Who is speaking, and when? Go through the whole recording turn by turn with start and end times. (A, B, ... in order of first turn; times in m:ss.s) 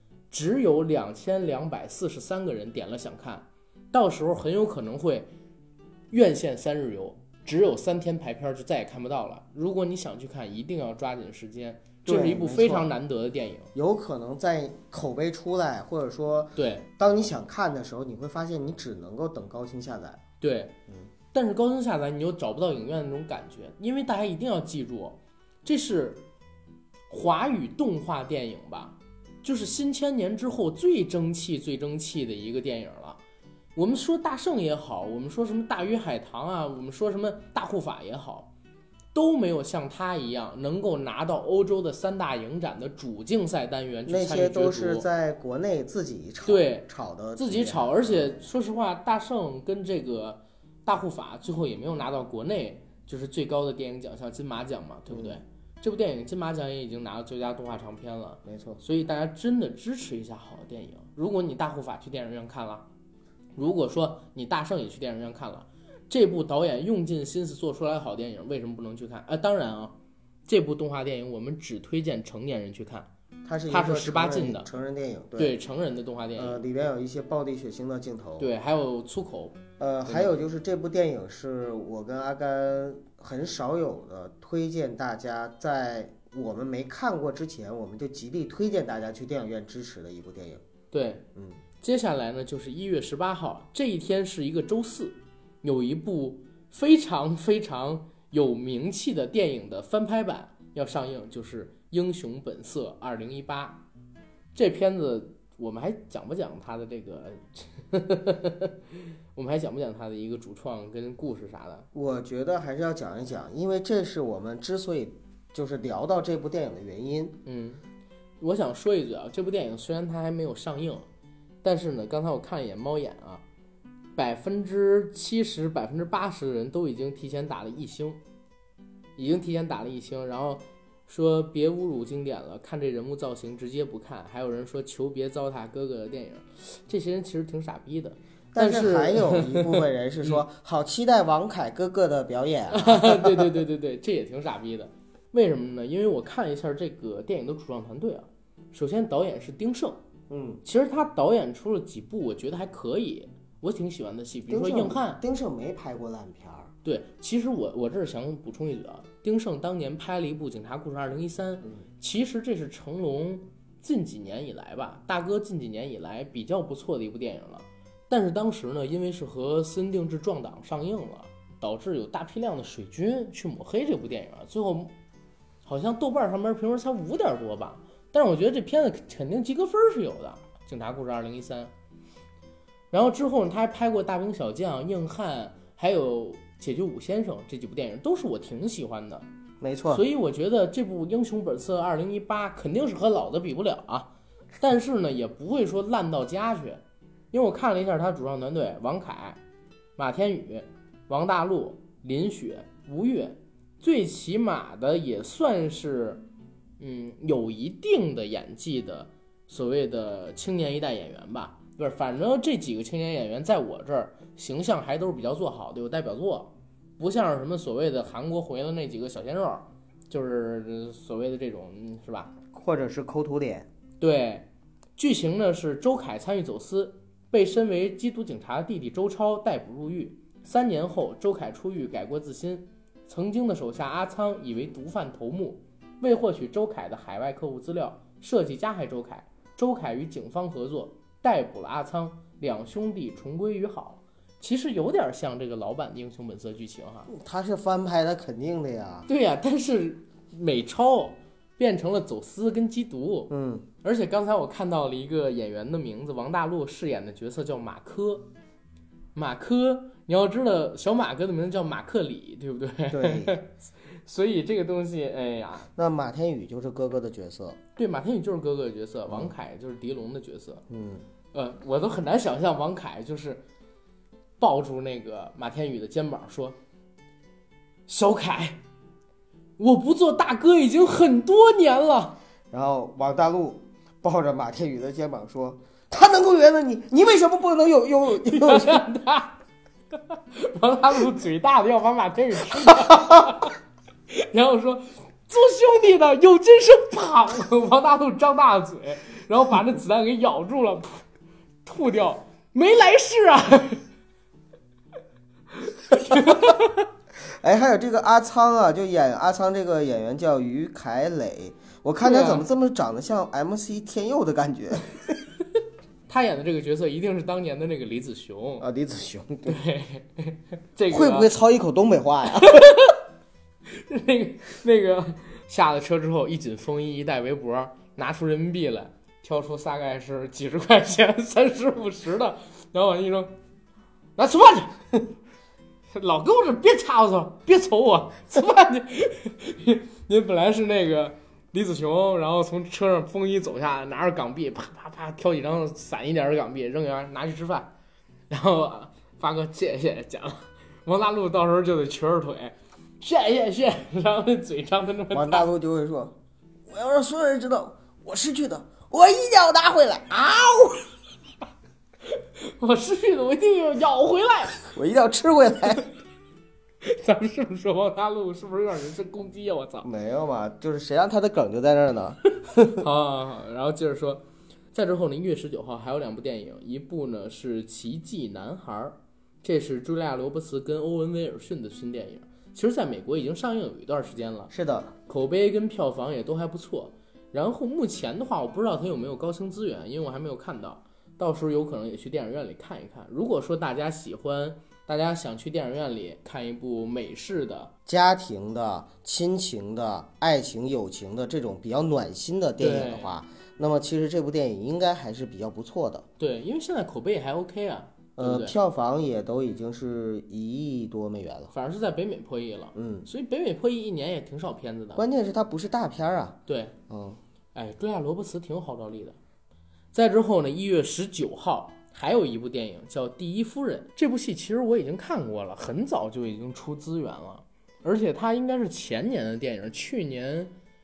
0:00.3-0:05.3 A
0:06.1-0:13.7 A
0:12.1-0:12.9 B
0:13.8-0:20.2 B
0:16.6-0:16.9 A
0:20.4-0:20.8 A
0:21.3-0:26.2 A
0:27.1-0:33.2 A
0:33.8-0:38.5 A
0:39.1-0:45.1 A
0:44.1-0:48.4 B
0:46.5-1:02.9 A
0:55.1-0:55.4 B
0:58.4-0:58.8 B
1:03.6-1:10.0 A
1:10.5-1:13.1 A
1:13.4-1:15.6 B
1:13.7-1:14.7 A
1:15.4-1:16.6 A
1:16.4-1:18.5 B
1:18.4-1:20.4 A
1:19.8-1:30.6 B
1:30.9-1:31.2 A
1:31.4-1:31.6 B
1:31.8-1:43.8 A
1:44.6-1:51.9 A
1:51.9-1:57.4 B
1:57.4-1:57.8 A
1:58.4-2:01.1 A
2:01.6-2:03.4 A
2:04.2-2:08.2 A
2:09.2-2:20.4 A
2:18.5-2:23.6 B
2:22.7-2:30.0 A
2:30.3-2:30.6 B
2:30.6-2:35.2 A
2:34.5-2:36.7 B
2:36.8-2:54.9 A
2:55.6-3:01.7 A
3:02.9-3:09.2 A
3:09.6-3:10.0 B
3:09.9-3:19.4 A
3:20.0-3:26.2 A
3:26.8-3:42.3 A
3:42.5-3:43.7 B
3:44.0-4:07.1 A
4:07.1-4:09.1 B
4:09.1-4:13.3 A
4:13.3-4:13.7 B
4:13.8-4:18.3 A
4:19.2-4:25.7 A
4:22.9-4:23.4 B
4:25.8-4:27.6 B
4:27.8-4:30.6 A
4:30.7-4:31.0 B
4:31.3-4:33.4 A
4:34.4-4:36.6 A
4:37.9-4:38.6 A
4:39.6-4:42.2 A
4:42.5-4:48.9 B
4:48.2-4:49.4 A
4:50.0-4:53.6 A
4:54.1-5:01.0 A
5:01.6-5:03.8 A
5:05.6-5:06.9 A
5:07.3-5:15.2 B
5:12.0-5:12.4 A
5:16.1-5:18.7 A
5:18.6-5:19.6 B
5:19.5-5:21.3 A
5:20.9-5:22.7 B
5:22.4-5:23.0 A
5:23.7-5:33.3 A
5:34.2-5:34.9 A
5:35.9-5:47.7 A
5:48.3-5:55.5 A
5:55.1-5:56.1 B
5:56.7-6:00.8 B
6:02.1-6:04.6 A
6:04.7-6:05.9 B
6:06.8-6:09.9 A
6:09.8-6:12.8 B
6:12.6-6:24.5 A
6:24.5-6:24.9 B
6:25.1-6:37.7 A
6:37.9-6:46.1 B
6:42.6-6:43.1 A
6:46.2-6:48.6 A
6:48.2-6:51.5 B
6:51.5-6:55.0 A
6:52.8-6:53.1 B
6:55.0-6:57.2 B
6:56.5-6:56.8 A
6:57.6-6:59.2 A
6:59.9-7:10.5 A